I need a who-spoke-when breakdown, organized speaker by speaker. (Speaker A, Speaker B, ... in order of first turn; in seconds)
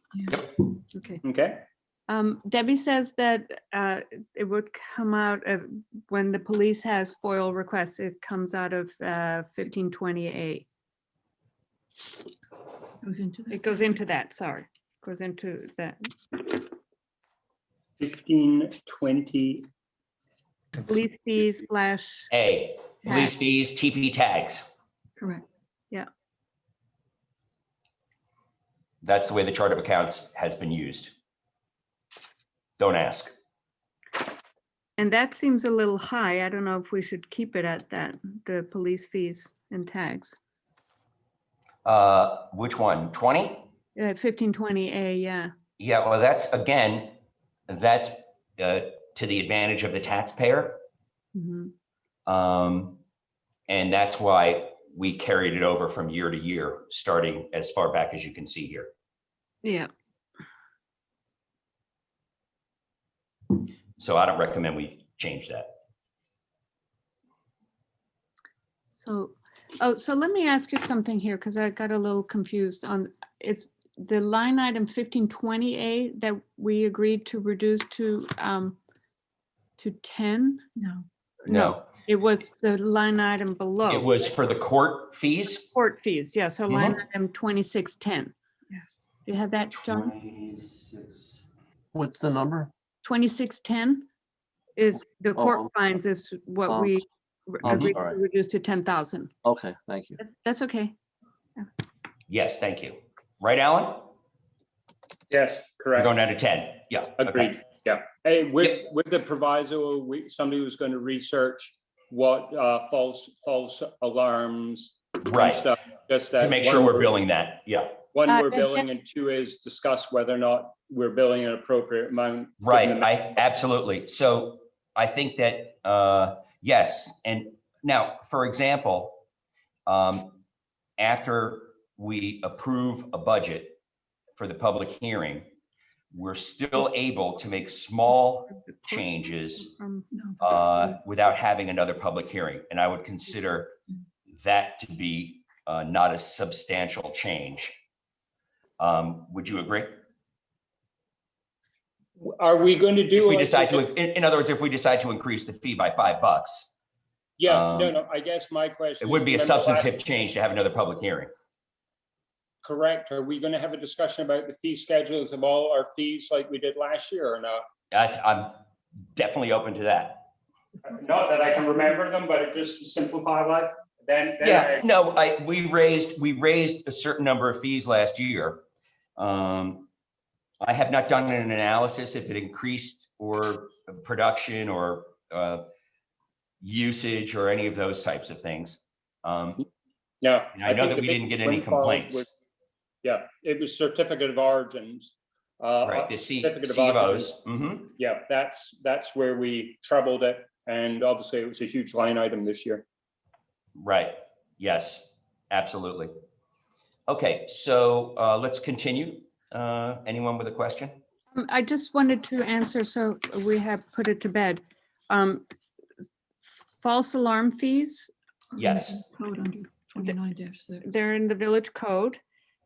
Speaker A: 1.2-1.6, 18.0-19.7, 105.3-106.2, 107.2-117.1, 118.1-123.2, 152.2-153.9, 157.4-159.9, 162.6-167.6, 170.8-174.9, 190.2-192.3, 193.0-197.3, 198.0-202.8
Speaker B: 2.1-10.7, 13.5-16.6, 20.8-22.3, 35.0-40.4, 44.0-45.5, 51.3-51.7, 59.6-59.9, 68.9-78.8, 79.8-80.6, 81.5-84.2, 85.5-88.3, 89.2-90.1, 93.0-94.0, 94.8-99.3, 100.2-100.9, 138.5-140.1, 211.3-215.4, 216.4-218.1, 220.8-222.2
Speaker C: 13.0-13.7, 80.8-81.0, 118.3-118.8, 140.1-140.6, 218.6-220.8
Speaker D: 22.3-24.6, 29.0-31.1, 32.8-33.3, 41.8-43.7, 45.8-47.1, 47.7-50.8, 52.3-53.0, 53.7-58.9, 63.5-65.7, 81.5-81.8, 83.9-85.6, 86.7-87.0, 89.8-91.3, 102.3-104.1, 106.0-107.5, 115.2-115.6, 116.4-118.0, 122.6-129.2, 129.9-130.4, 131.0-133.8, 134.3-135.4, 136.1-139.7, 140.4-143.8, 144.3-147.8, 148.8-149.9, 153.1-156.7, 157.5-157.9, 159.0-161.3, 167.9-168.6, 169.1-170.3, 174.4-178.6, 179.2-179.9, 180.6-185.7, 186.6-189.6, 190.5-192.3, 195.8-197.9, 203.8-206.1, 207.1-211.0, 218.6-219.0
Speaker E: 91.9-92.7, 95.3-95.7, 96.7-97.0, 97.6-98.2, 99.4-100.2